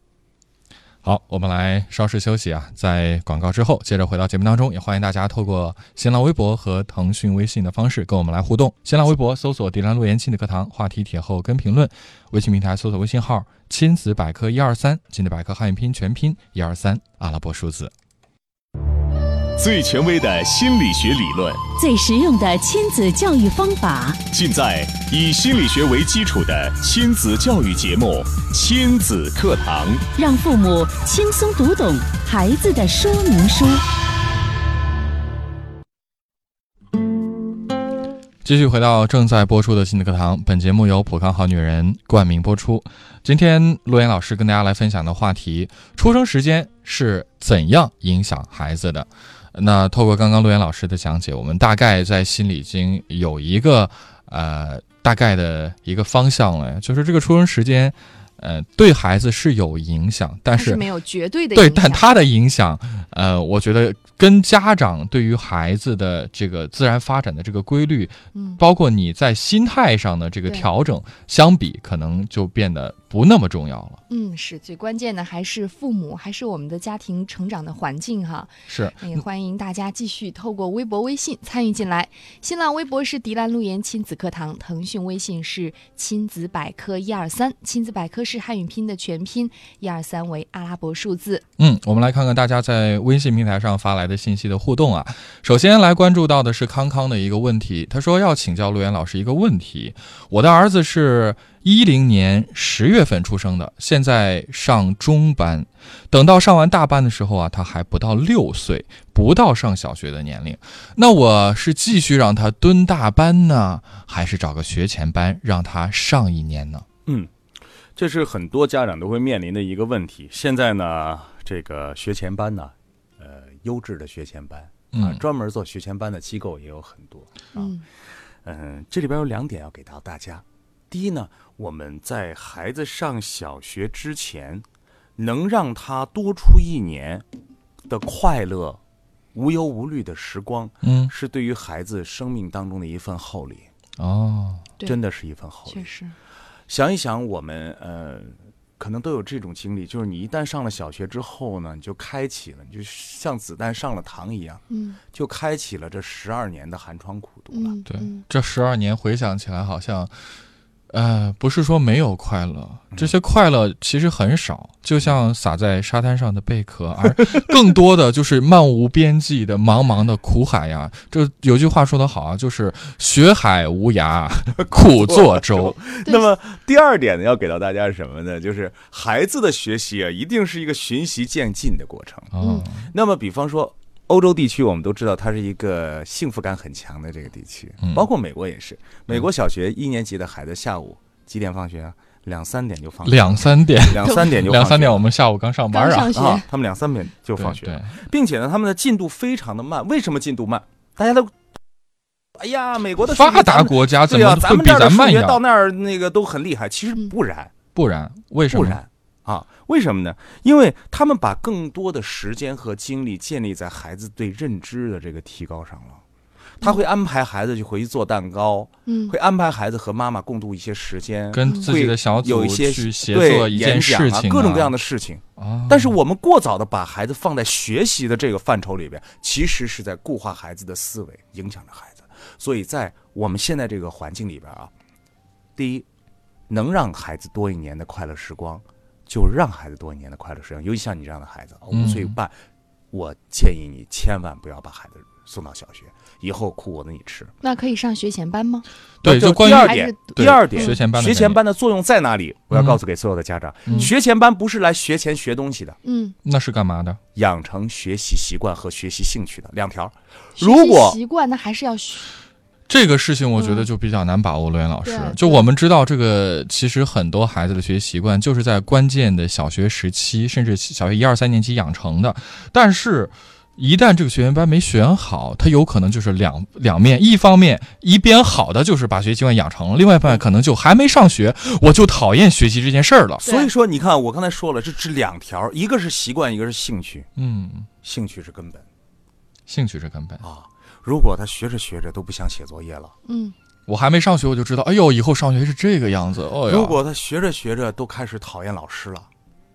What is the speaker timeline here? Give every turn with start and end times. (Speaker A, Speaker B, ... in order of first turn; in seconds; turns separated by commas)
Speaker A: 1.0-17.9, Speaker B: 19.6-21.7, Speaker C: 21.8-24.2, Speaker B: 24.3-30.1, Speaker C: 30.1-33.8, Speaker A: 38.4-60.8, Speaker D: 60.5-62.2, Speaker A: 61.5-74.0, Speaker D: 68.3-68.6, Speaker D: 74.1-91.4, Speaker A: 78.7-79.2, Speaker A: 91.6-116.8, Speaker E: 117.1-117.3, Speaker E: 118.0-127.7, Speaker A: 124.9-125.2, Speaker D: 127.5-127.8, Speaker E: 128.4-134.7, Speaker E: 135.2-137.2, Speaker E: 137.9-138.8, Speaker E: 139.3-143.7, Speaker A: 140.8-141.1, Speaker A: 144.0-144.7, Speaker E: 144.8-145.9, Speaker D: 145.7-146.2, Speaker E: 146.7-157.8, Speaker D: 154.7-155.0, Speaker D: 157.5-158.2, Speaker A: 157.9-160.2, Speaker A: 160.9-175.8, Speaker E: 175.0-195.1, Speaker A: 182.3-182.9, Speaker D: 182.4-182.7, Speaker A: 193.0-196.2, Speaker D: 195.7-196.5, Speaker E: 196.1-201.5, Speaker A: 197.4-198.0, Speaker E: 202.3-207.6, Speaker A: 203.0-205.4, Speaker A: 207.8-208.8, Speaker E: 208.5-216.0, Speaker E: 216.6-234.7, Speaker D: 218.9-219.2, Speaker A: 221.3-224.7, Speaker A: 225.4-225.9, Speaker E: 235.6-235.9, Speaker E: 236.5-242.4, Speaker A: 241.7-242.2, Speaker E: 242.9-247.3, Speaker D: 247.4-248.7, Speaker A: 249.0-251.4, Speaker E: 249.0-255.8, Speaker D: 249.4-250.8, Speaker A: 252.5-252.8, Speaker A: 253.7-253.9, Speaker D: 255.8-256.2, Speaker A: 256.2-257.0, Speaker E: 257.1-261.0, Speaker D: 260.4-262.1, Speaker A: 262.7-283.2, Speaker D: 263.4-263.7, Speaker D: 264.8-265.5, Speaker D: 283.2-283.5, Speaker E: 283.2-287.1, Speaker A: 287.2-287.7, Speaker E: 287.8-288.7, Speaker A: 289.5-290.2, Speaker E: 290.2-292.9, Speaker D: 293.1-293.4, Speaker A: 293.7-296.8, Speaker E: 296.5-299.1